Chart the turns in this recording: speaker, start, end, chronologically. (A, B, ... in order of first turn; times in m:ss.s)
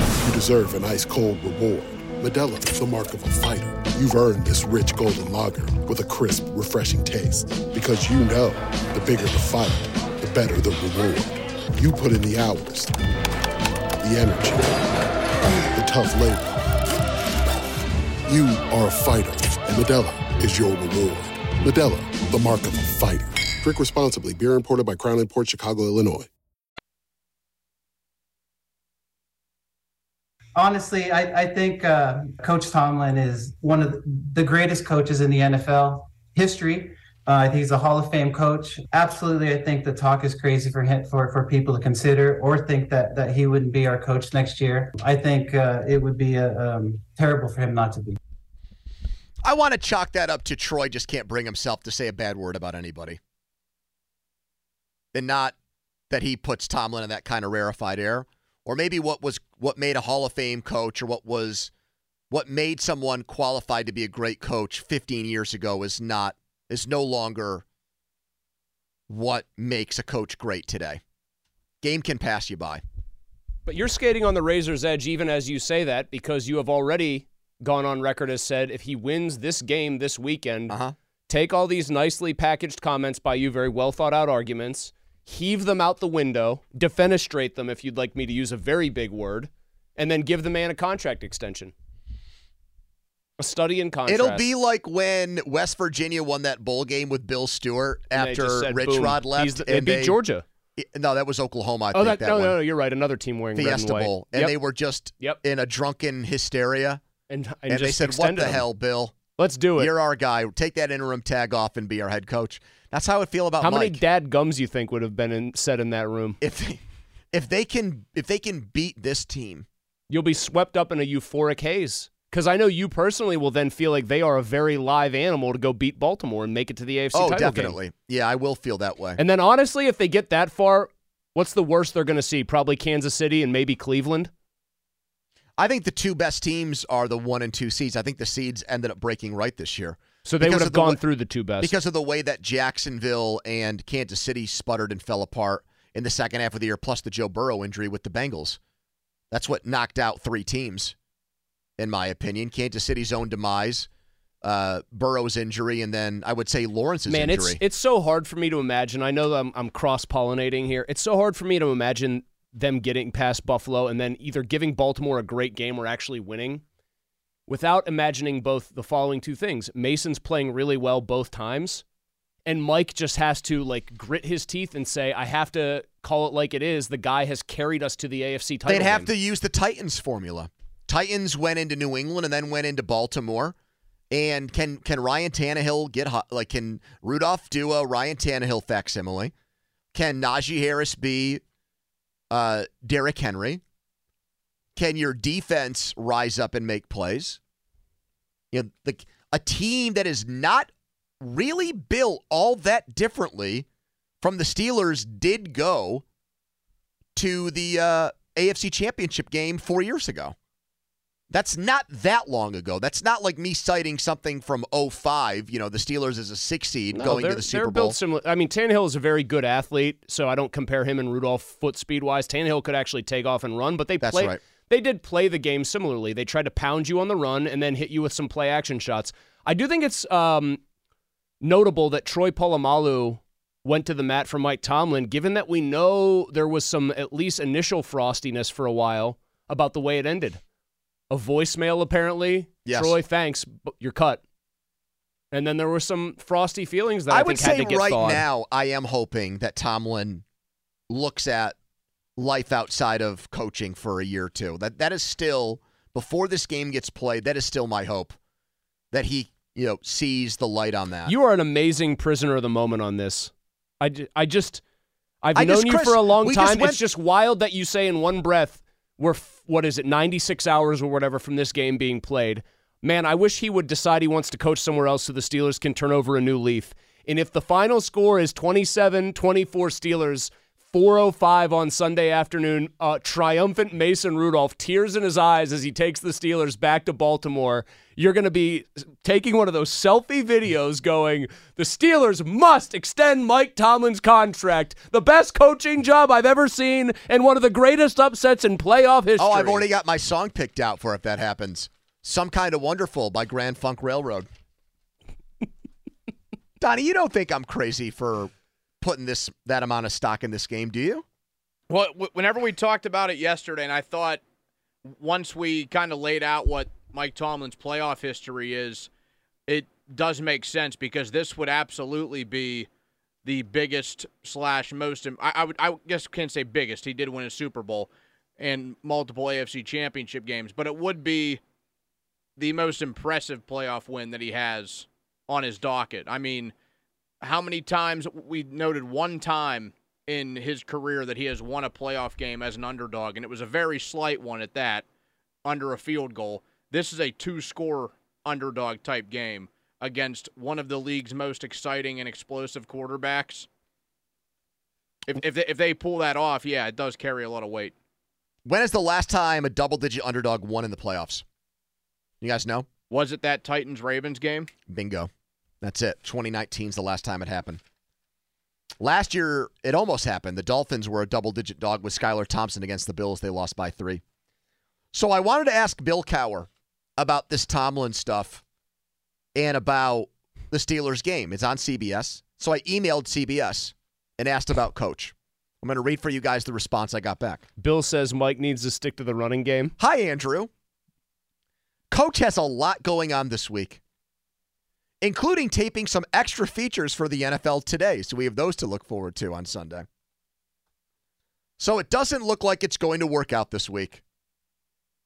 0:00.2-0:12.9 A
0:14.0-0:14.8 A
0:15.7-0:16.6 A
0:18.3-0:26.3 A
0:30.6-0:48.2 B
0:49.4-0:53.2 C
0:55.1-0:55.5 C
0:56.1-1:01.7 C
1:02.3-1:07.6 C
1:09.1-1:11.0 C
1:11.8-1:12.8 C
1:13.6-1:20.8 D
1:20.7-1:20.9 C
1:21.3-1:31.7 D
1:33.4-1:34.5 D
1:34.1-1:40.2 C
1:38.1-1:40.4 D
1:40.8-1:42.6 C
1:41.9-1:44.6 D
1:43.5-1:47.0 C
1:47.3-1:48.6 D
1:47.7-1:49.2 C
1:49.4-1:49.9 D
1:49.8-1:54.0 C
1:53.6-1:56.4 D
1:56.4-1:59.7 C
2:00.1-2:07.8 D
2:07.1-2:09.2 C
2:09.2-2:14.3 D
2:15.6-2:21.0 C
2:20.2-2:21.7 D
2:21.6-2:28.6 C
2:29.3-2:30.9 C
2:31.8-2:33.9 C
2:34.4-2:37.6 C
2:37.1-2:46.6 D
2:47.5-2:51.8 D
2:52.4-2:59.1 D
2:58.7-3:03.5 C
3:04.1-3:09.3 C
3:09.9-3:11.4 C
3:12.3-3:13.6 C
3:14.8-3:17.4 C
3:18.5-3:20.7 C
3:21.2-3:23.6 C
3:24.2-3:26.0 C
3:27.1-3:30.3 C
3:31.3-3:38.0 C
3:36.9-3:50.6 D
3:44.0-3:44.4 C
3:51.4-4:00.4 D
4:01.1-4:04.2 D
4:02.6-4:02.9 C
4:05.3-4:08.2 D
4:07.1-4:10.2 C
4:10.9-4:11.6 C
4:12.2-4:18.1 C
4:18.9-4:21.1 C
4:21.0-4:24.6 D
4:25.2-4:59.6 D
4:25.4-4:26.8 C
4:59.2-5:04.3 C
5:06.6-5:11.0 C
5:11.7-5:14.2 E
5:14.9-5:18.9 E
5:19.5-5:22.7 E
5:23.2-5:31.4 E
5:32.4-5:36.5 E
5:37.2-5:44.8 E
5:45.4-5:53.5 E
5:55.1-5:57.7 E
5:58.4-6:01.2 C
6:02.2-6:02.7 C
6:02.9-6:04.5 E
6:04.7-6:05.1 C
6:05.6-6:07.6 C
6:08.8-6:14.0 C
6:14.9-6:18.4 C
6:19.3-6:27.4 C
6:27.6-6:29.8 D
6:29.8-6:30.5 C
6:31.9-6:33.8 C
6:35.0-6:39.8 C
6:41.6-6:44.0 C